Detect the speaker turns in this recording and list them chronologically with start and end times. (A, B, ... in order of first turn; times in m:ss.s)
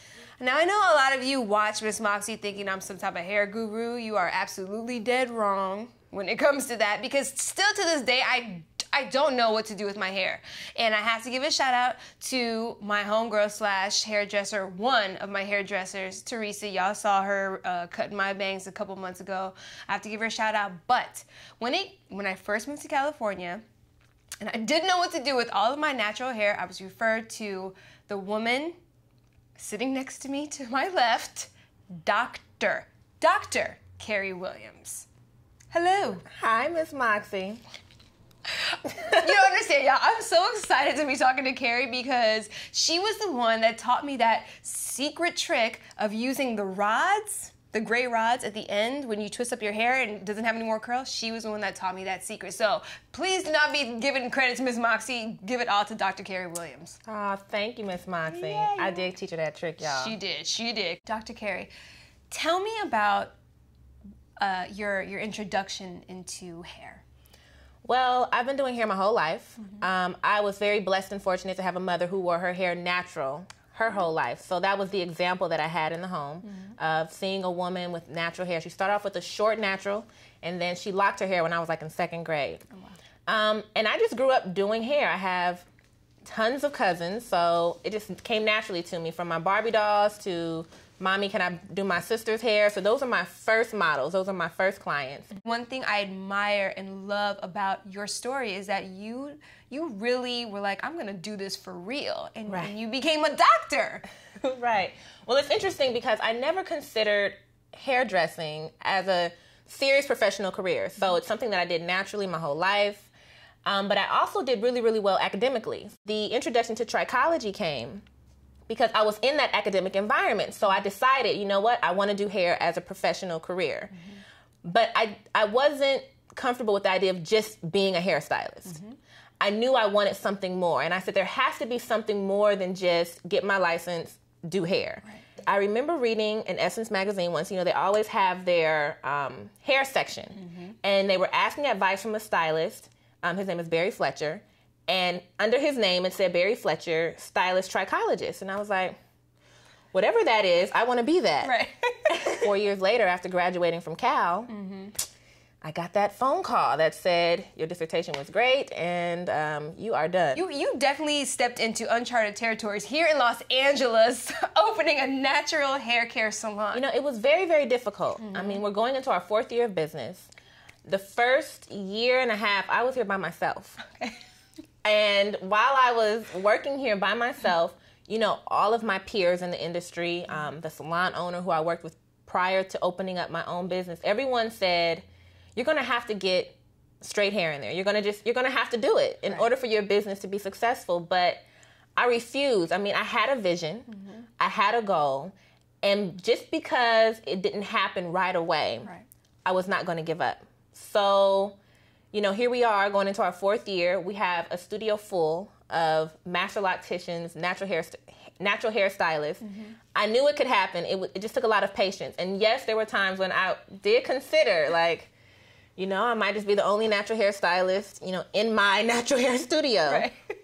0:00.4-0:23.6 A
0:24.4-0:28.8 A
0:29.6-0:35.1 A
0:35.7-0:36.3 A
0:36.3-0:37.6 B
0:38.6-0:57.0 A
0:57.0-1:00.2 B
0:58.2-0:59.1 A
0:59.8-1:01.7 A
1:02.3-1:03.3 A
1:04.4-1:07.0 A
1:07.8-1:22.6 B
1:23.2-1:25.6 B
1:26.2-1:35.3 B
1:35.4-1:44.0 A
1:42.5-1:42.7 B
1:44.4-1:53.1 B
1:53.6-1:58.0 B
1:58.7-2:03.9 B
2:04.6-2:08.8 B
2:08.7-2:09.0 A
2:09.4-2:29.0 B
2:20.4-2:20.7 A
2:29.9-2:31.6 B
2:31.4-2:32.5 A
2:32.1-2:34.5 B
2:34.5-2:35.0 A
2:35.6-2:40.4 B
2:40.3-2:46.8 A
2:46.7-2:50.3 B
2:48.2-2:48.6 A
2:50.8-2:53.8 B
2:54.8-3:11.4 B
3:12.0-3:13.9 B
3:13.9-3:14.2 A
3:14.4-3:18.9 B
3:19.4-3:21.6 B
3:22.1-3:29.4 B
3:29.4-3:29.7 A
3:29.9-3:35.1 B
3:35.8-3:40.1 B
3:39.9-3:40.2 A